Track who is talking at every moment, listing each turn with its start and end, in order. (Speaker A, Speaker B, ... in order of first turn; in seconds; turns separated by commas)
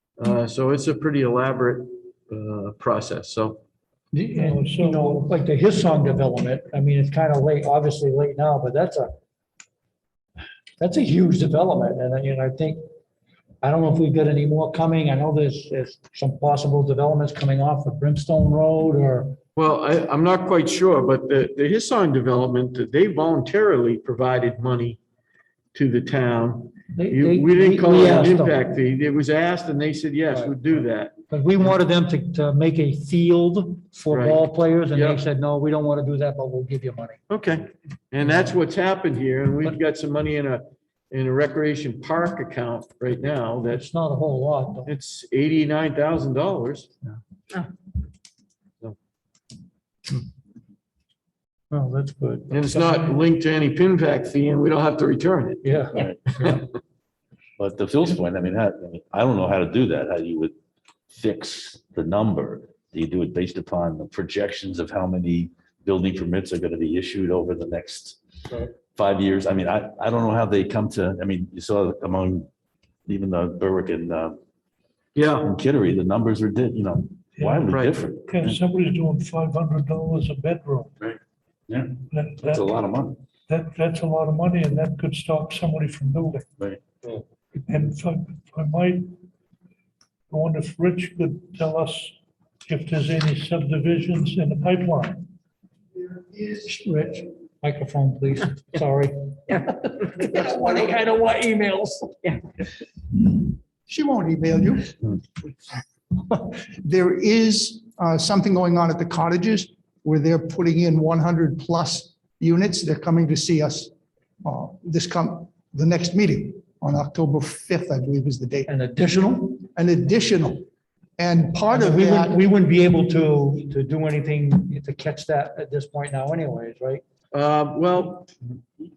Speaker A: 0.2-3.6, Speaker B: 4.1-9.1, Speaker C: 4.3-5.3, Speaker B: 10.8-12.8, Speaker B: 13.6-19.4, Speaker A: 19.6-25.0, Speaker A: 25.7-31.1, Speaker B: 26.9-28.6, Speaker B: 31.3-37.2, Speaker A: 34.1-35.2, Speaker A: 37.3-43.9, Speaker B: 38.2-38.5, Speaker B: 43.7-44.9, Speaker A: 44.9-46.9, Speaker B: 47.0-47.6, Speaker B: 51.7-53.2, Speaker A: 52.5-55.7, Speaker B: 55.6-56.1, Speaker D: 57.6-60.5, Speaker D: 61.1-68.2, Speaker D: 68.9-72.5, Speaker D: 73.1-74.4, Speaker A: 75.1-75.5, Speaker D: 75.4-78.6, Speaker C: 77.4-80.9, Speaker D: 81.0-83.2, Speaker C: 82.1-82.7, Speaker C: 83.5-86.5, Speaker C: 87.7-89.1, Speaker C: 90.3-92.1, Speaker C: 92.7-95.3, Speaker B: 96.4-102.3, Speaker E: 103.9-105.0, Speaker E: 106.3-113.9, Speaker E: 114.4-118.7, Speaker B: 118.7-119.6, Speaker E: 119.6-120.7, Speaker E: 121.2-122.4, Speaker B: 121.7-127.0, Speaker A: 127.3-128.3